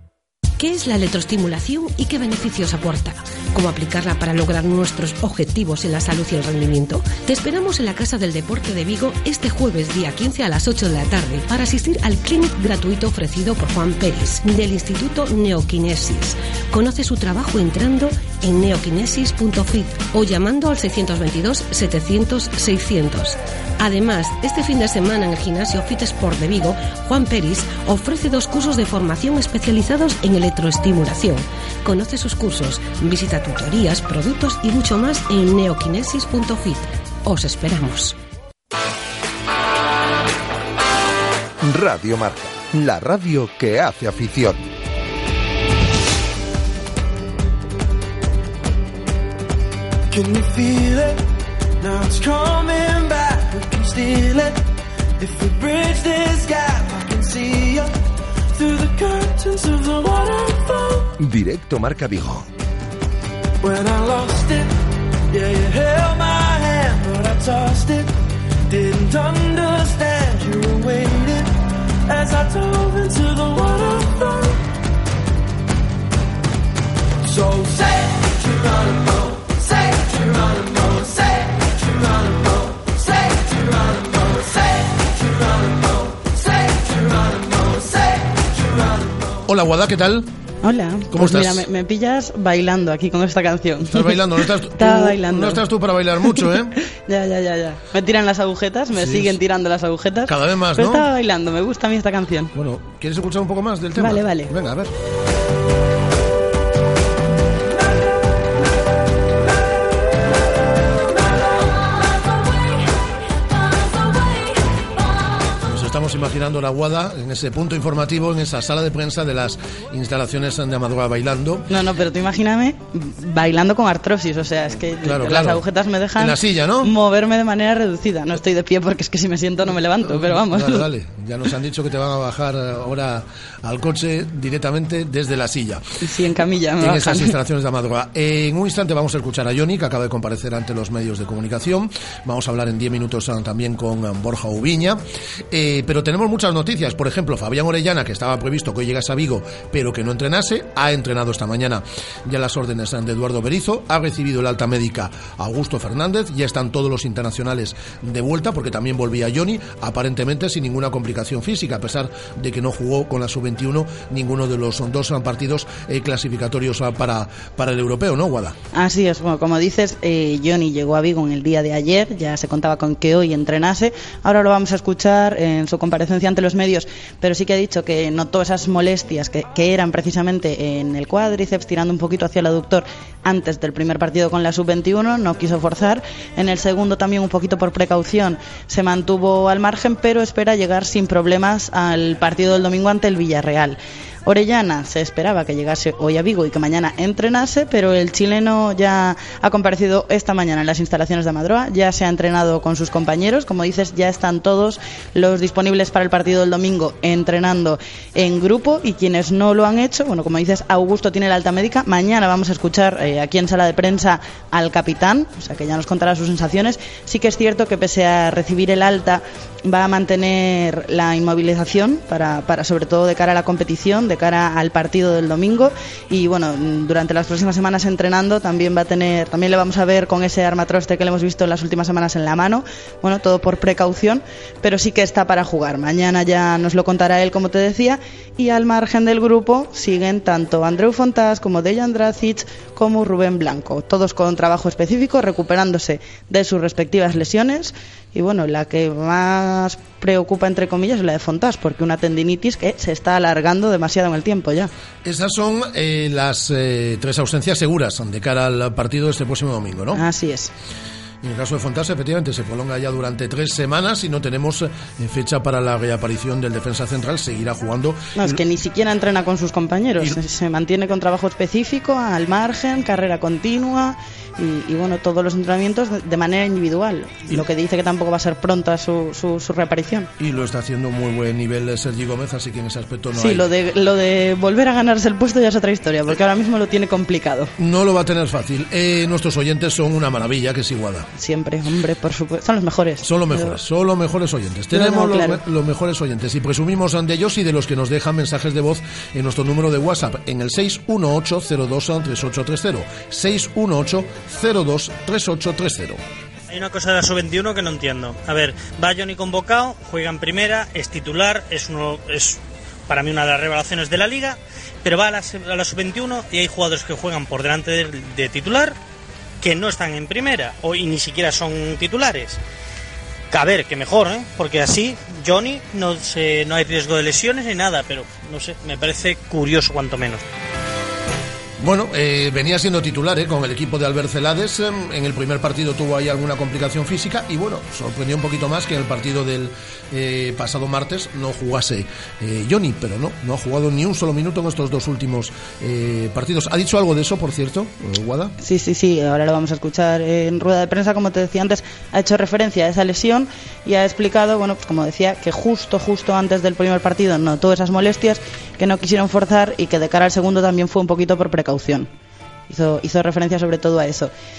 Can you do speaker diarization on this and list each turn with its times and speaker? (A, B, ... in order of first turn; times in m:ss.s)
0:00.6-0:38.2 A
0:41.6-0:44.6 B
0:50.1-0:51.2 C
0:51.8-0:54.6 C
0:55.2-0:58.0 C
0:58.5-1:01.1 C
1:01.2-1:02.5 B
1:03.6-1:04.7 C
1:05.3-1:08.1 C
1:08.7-1:11.5 C
1:12.1-1:14.6 C
1:17.2-1:29.4 C
1:29.4-1:30.3 D
1:30.6-1:34.2 E
1:31.1-1:31.7 D
1:33.8-1:36.7 D
1:34.8-1:35.6 E
1:37.0-1:42.5 E
1:38.9-1:39.4 D
1:40.2-1:41.0 D
1:42.5-1:44.9 D
1:44.0-1:44.5 E
1:55.6-2:01.6 D
2:01.7-2:10.8 E
2:05.0-2:05.6 D
2:06.2-2:06.9 D
2:10.0-2:15.8 D
2:16.0-2:17.3 E
2:16.8-2:48.6 D
2:48.7-4:14.7 E
4:15.0-4:20.0 D
4:19.9-4:20.5 E
4:21.2-4:28.4 D
4:28.2-4:40.1 E
4:40.2-4:43.5 D
4:43.1-4:47.5 E
4:47.6-4:51.1 D
4:51.1-4:53.6 E
4:53.0-5:06.0 D
4:54.7-4:55.4 E
5:06.5-5:18.8 F
5:19.4-5:22.4 F
5:23.3-5:30.2 F
5:31.6-5:48.3 D
5:48.4-6:01.9 E
6:02.5-6:04.1 E